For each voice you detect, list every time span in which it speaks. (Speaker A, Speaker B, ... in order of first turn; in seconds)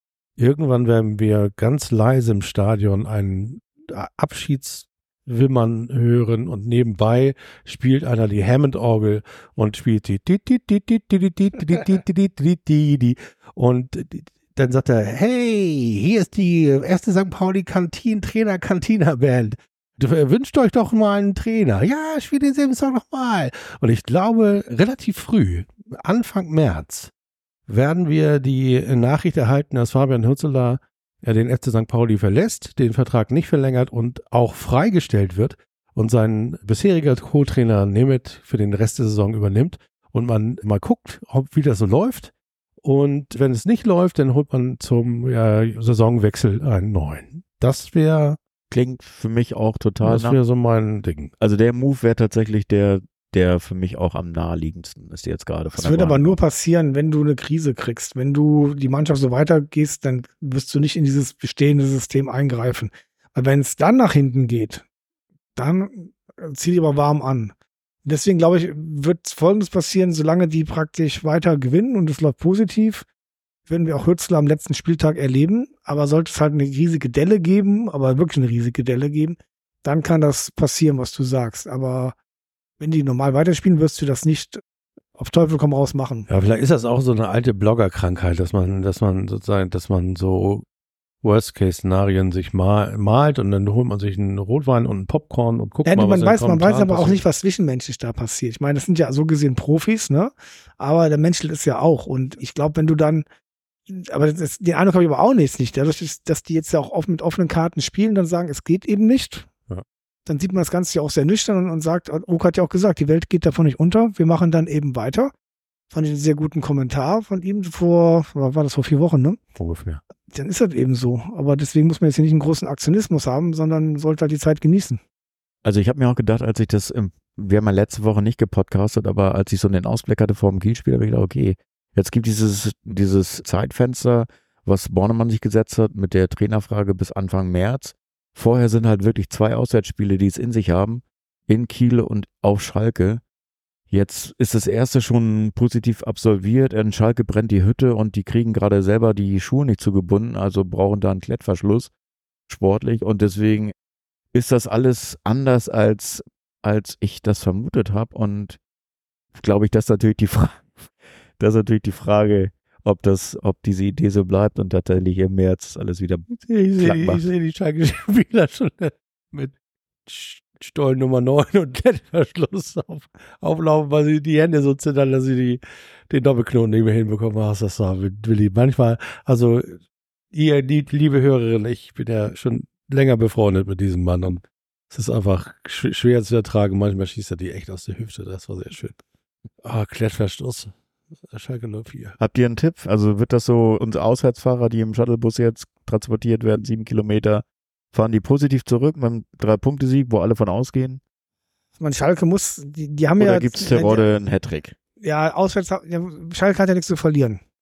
Speaker A: 0.4-27.1, 27.7-48.4, 50.0-51.3, 86.3-90.7, 91.2-97.2, 119.6-120.0, 166.3-169.5, 170.1-179.8, 180.3-189.0, 189.6-190.7, 191.3-192.2
Speaker B: 48.7-50.4, 51.4-56.4, 125.6-143.2, 143.9-151.9, 152.5-153.7, 154.3-158.6, 159.3-160.8, 161.4-167.3, 192.2-201.0, 203.2-204.8
Speaker C: 55.7-64.8, 65.6-67.5, 68.0-73.0, 73.7-82.2, 82.8-84.6, 85.2-86.3, 95.9-103.2, 103.9-109.5, 110.3-115.3, 115.9-119.4, 120.3-125.0, 201.8-204.1, 205.0-207.4